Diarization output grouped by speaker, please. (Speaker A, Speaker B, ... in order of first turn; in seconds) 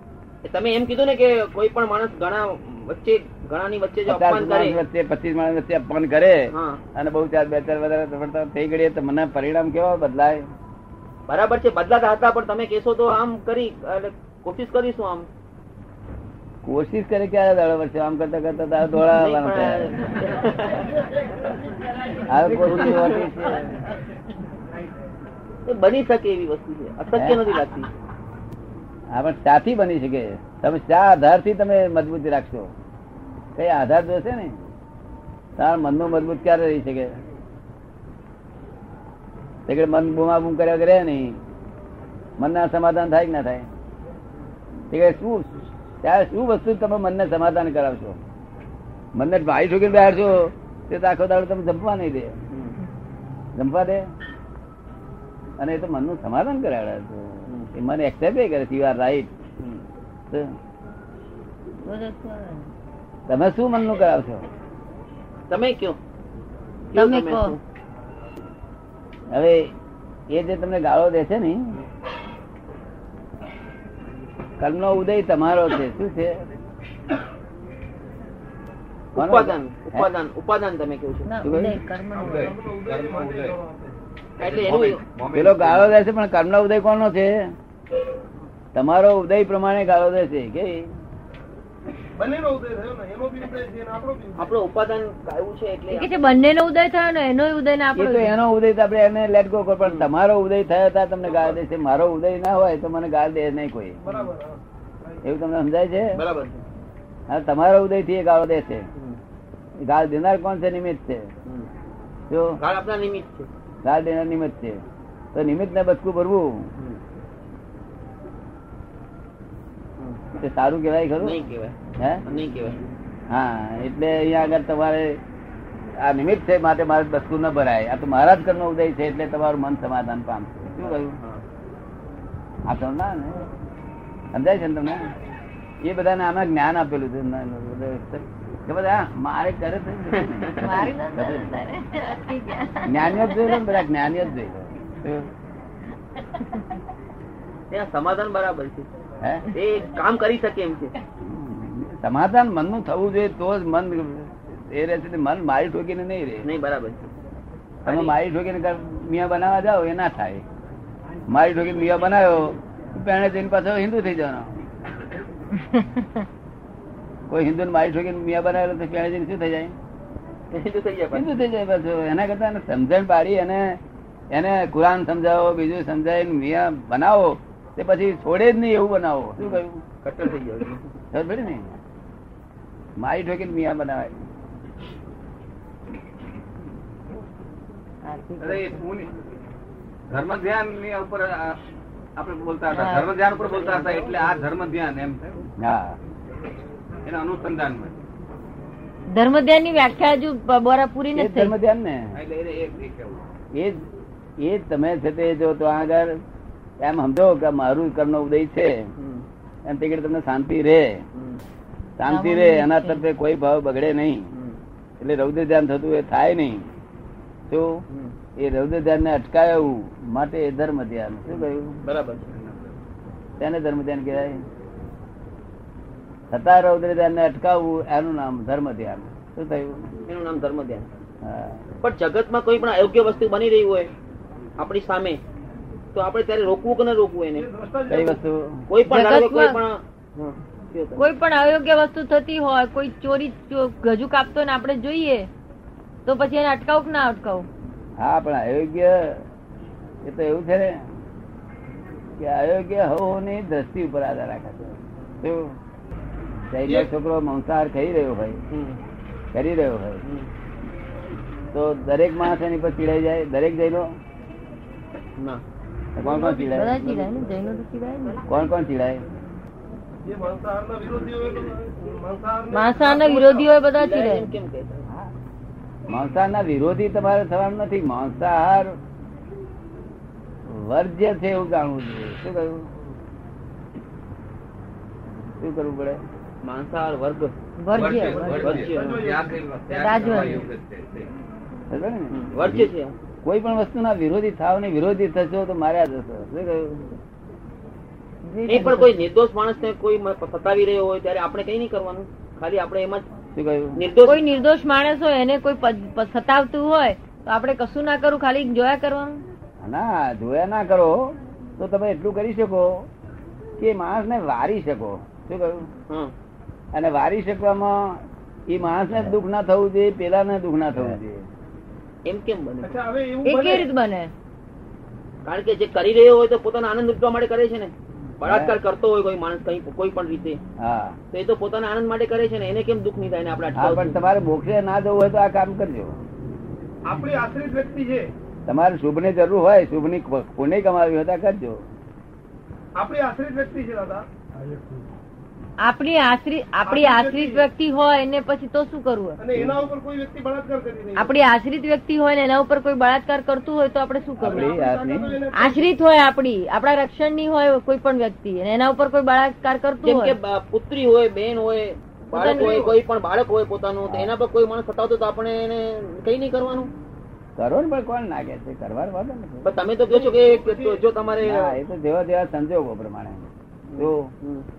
Speaker A: 0.4-4.8, 6.5-6.8, 11.3-15.3, 19.0-21.0, 22.5-23.5, 25.6-27.9, 52.5-52.8, 59.6-59.9, 65.5-66.0, 66.9-67.6, 79.1-81.3, 84.4-85.0, 94.4-96.2, 99.8-100.1, 104.1-104.3, 106.1-106.6, 112.6-113.5, 121.2-122.8, 130.9-131.4, 140.2-140.6, 147.7-148.9, 149.5-150.9, 156.4-157.0, 157.9-158.1, 170.5-171.3, 179.4-180.8, 209.0-209.2, 211.1-211.4, 214.3-214.6, 217.9-218.1, 221.4-222.3, 230.1-230.9, 231.8-233.9, 234.6-235.2, 235.9-237.5, 238.7-241.0, 258.5-258.8, 260.0-260.3, 265.2-265.4, 273.7-274.9, 286.4-289.1, 292.1-292.9, 298.5-303.1, 303.8-304.2, 322.0-322.8, 325.2-330.4, 331.1-334.0, 359.8-366.7, 369.4-371.6, 373.7-374.5
Speaker B: 4.1-10.5, 16.6-20.0, 22.2-23.8, 27.1-27.4, 29.1-32.7, 33.5-34.6, 35.6-37.2, 39.7-41.4, 42.4-43.7, 44.9-48.2, 49.1-52.4, 53.5-54.0, 55.6-59.3, 63.3-64.5, 69.3-69.7, 70.3-71.8, 74.6-76.4, 79.2-80.1, 81.4-81.8, 85.3-87.5, 88.8-90.9, 97.9-104.0, 105.2-106.2, 107.3-108.9, 109.8-111.3, 112.3-112.6, 113.8-114.8, 115.3-116.7, 120.3-121.4, 123.3-125.2, 126.0-131.2, 132.7-133.4, 134.3-135.1, 135.8-141.5, 142.9-145.3, 149.2-149.5, 151.2-156.5, 157.8-160.4, 161.3-164.6, 167.3-169.8, 171.1-173.8, 174.3-179.8, 181.1-181.7, 183.0-184.2, 195.6-196.0, 201.1-202.1, 203.5-203.8, 204.4-206.2, 206.8-208.9, 209.7-211.0, 212.0-214.3, 215.0-216.7, 217.5-217.8, 218.4-221.8, 223.4-224.4, 226.3-229.9, 231.2-231.6, 237.9-238.7, 248.0-249.2, 250.0-250.9, 252.2-255.6, 256.5-258.4, 259.3-260.0, 261.5-263.9, 266.0-266.8, 268.3-269.0, 275.9-278.8, 280.5-282.7, 285.4-286.0, 291.7-292.7, 293.2-296.9, 303.4-303.8, 309.6-312.9, 313.6-315.7, 316.7-321.3, 328.2-328.5, 330.6-331.0, 333.5-336.0, 338.5-341.6, 354.2-355.2, 367.4-369.5, 371.2-374.1
Speaker C: 61.8-62.7, 66.9-67.6, 81.3-82.5, 95.9-98.3, 140.6-143.8, 146.3-146.6, 165.6-166.1, 188.0-188.8, 192.7-193.1, 199.1-201.5, 212.1-213.0, 238.8-239.6, 241.0-245.3, 246.0-247.5, 266.5-268.2, 272.5-274.3, 287.6-288.6, 289.7-290.5, 298.2-299.1, 304.0-309.2, 323.2-324.1, 345.6-349.2, 351.0-354.6, 355.3-360.2, 362.1-362.6
Speaker D: 82.2-83.5, 84.4-86.0, 188.4-189.1, 190.1-191.6, 192.2-195.4, 197.0-197.9, 202.1-203.2, 222.3-222.7, 287.7-291.1
Speaker E: 82.2-84.0, 92.2-94.5, 104.0-105.2, 237.3-238.2, 266.0-266.8, 270.0-273.5, 288.6-289.4, 322.6-323.7, 336.8-338.1, 342.8-344.0, 346.7-347.5, 349.2-351.1, 354.2-355.7, 362.1-362.8, 369.9-370.8